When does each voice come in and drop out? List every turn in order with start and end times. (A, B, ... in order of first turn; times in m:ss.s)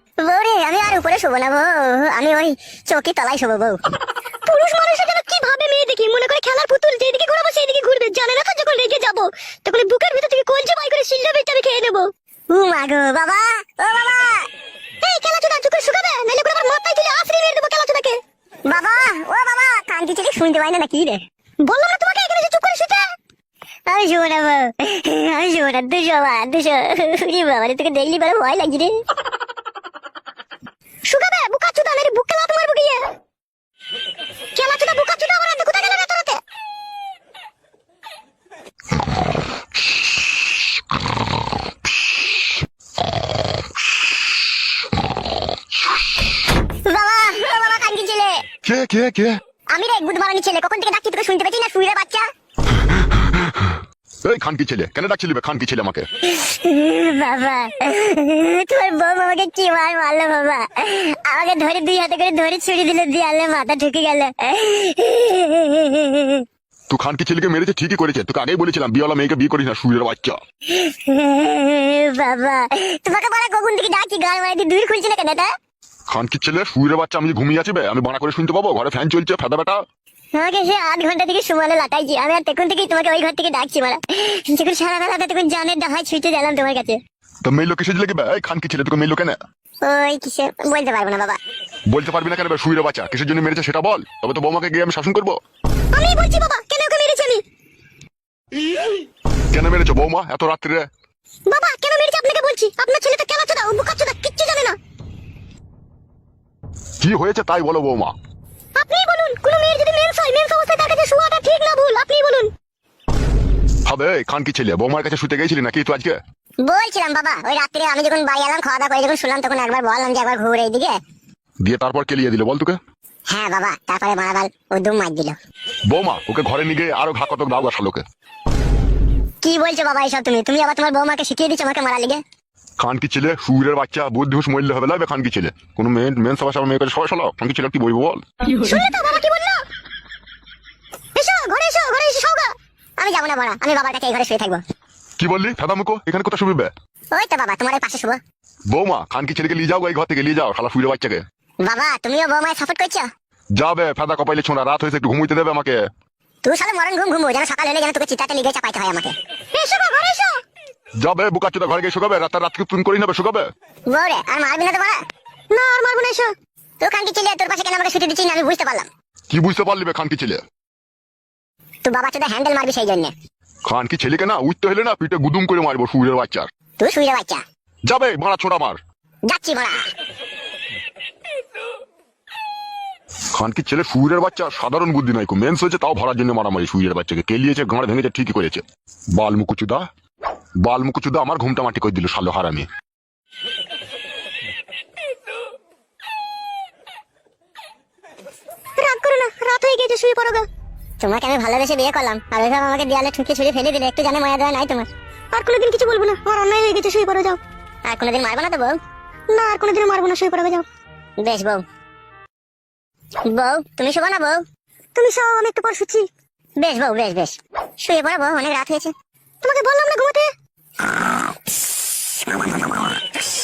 0:00.2-0:03.8 A
0:04.4-0:12.1 B
0:12.5-0:14.5 A
0:15.0-0:18.2 B
0:18.7-0:21.2 A
0:21.6-0:23.0 B
0:23.9-0:28.9 A
0:31.1-0:33.0 B
0:34.5-0:36.4 B
0:46.8-0:48.4 A
0:48.6-0:49.4 C
0:49.7-0:52.3 A
0:53.5-0:53.7 C
0:54.2-0:56.1 C
0:56.2-1:06.4 A
1:06.9-1:10.4 C
1:10.7-1:15.5 A
1:16.1-1:19.8 C
1:20.3-1:27.0 A
1:27.4-1:29.4 C
1:29.8-1:31.4 A
1:31.9-1:35.4 C
1:35.9-1:37.4 B
1:39.5-1:40.9 C
1:41.5-1:44.8 B
1:47.0-1:48.1 C
1:48.8-1:52.5 B
1:53.8-1:56.2 C
1:56.6-2:01.0 A
2:01.6-2:02.8 C
2:03.3-2:05.4 A
2:05.9-2:08.0 C
2:09.4-2:12.2 A
2:12.8-2:18.2 C
2:18.4-2:19.6 B
2:21.2-2:22.5 B
2:23.0-2:24.6 A
2:25.2-2:26.7 C
2:27.1-2:28.2 A
2:28.7-2:31.2 C
2:31.6-2:33.1 A
2:33.6-2:35.8 C
2:36.4-2:39.1 A
2:39.5-2:40.4 B
2:41.0-2:43.5 C
2:43.9-2:45.0 A
2:45.5-2:46.3 B
2:46.8-2:48.9 A
2:49.3-2:50.4 C
2:51.8-2:53.1 A
2:53.6-2:56.5 C
2:56.8-2:57.4 A
2:57.9-2:58.8 C
2:59.3-2:59.9 A
3:03.3-3:08.6 C
3:09.2-3:09.9 C
3:10.6-3:12.7 C
3:18.8-3:20.4 B
3:21.0-3:24.9 A
3:25.3-3:27.4 B
3:27.8-3:28.8 A
3:29.3-3:30.6 B
3:31.2-3:31.6 A
3:33.3-3:34.4 A
3:34.9-3:36.0 B
3:36.6-3:38.9 A
3:39.4-3:40.3 B